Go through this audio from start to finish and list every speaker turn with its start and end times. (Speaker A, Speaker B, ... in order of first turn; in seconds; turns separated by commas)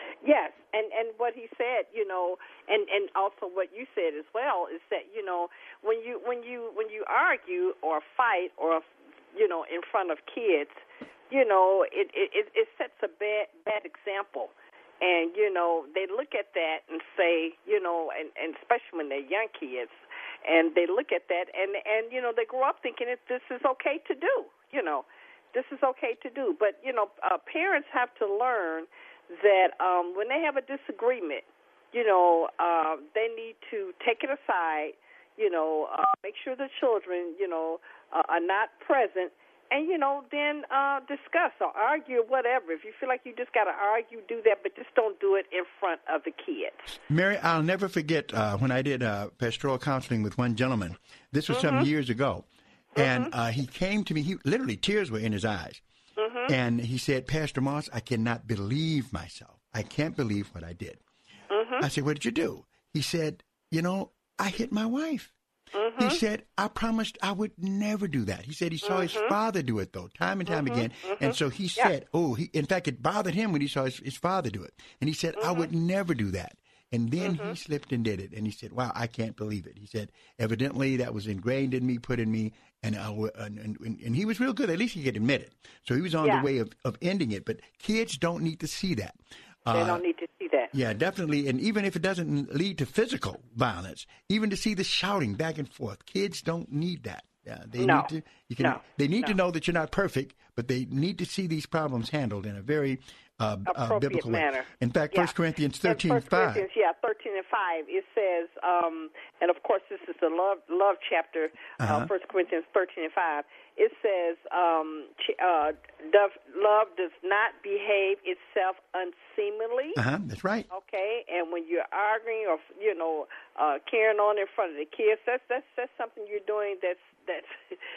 Speaker A: 0.2-46.9, Speaker B: 47.1-55.8, Speaker A: 51.5-51.9, Speaker A: 53.0-53.3, Speaker A: 56.2-56.5, Speaker B: 56.5-61.0, Speaker A: 61.5-61.9, Speaker B: 61.8-65.3, Speaker A: 65.8-66.2, Speaker B: 66.0-90.0, Speaker A: 68.8-69.3, Speaker A: 70.5-71.9, Speaker A: 75.4-75.7, Speaker A: 77.2-77.5, Speaker A: 89.7-90.7, Speaker B: 90.7-106.7, Speaker A: 97.8-98.1, Speaker A: 98.6-99.4, Speaker A: 103.7-105.3, Speaker A: 105.8-120.0, Speaker B: 111.8-112.1, Speaker B: 120.0-120.7, Speaker A: 120.7-127.5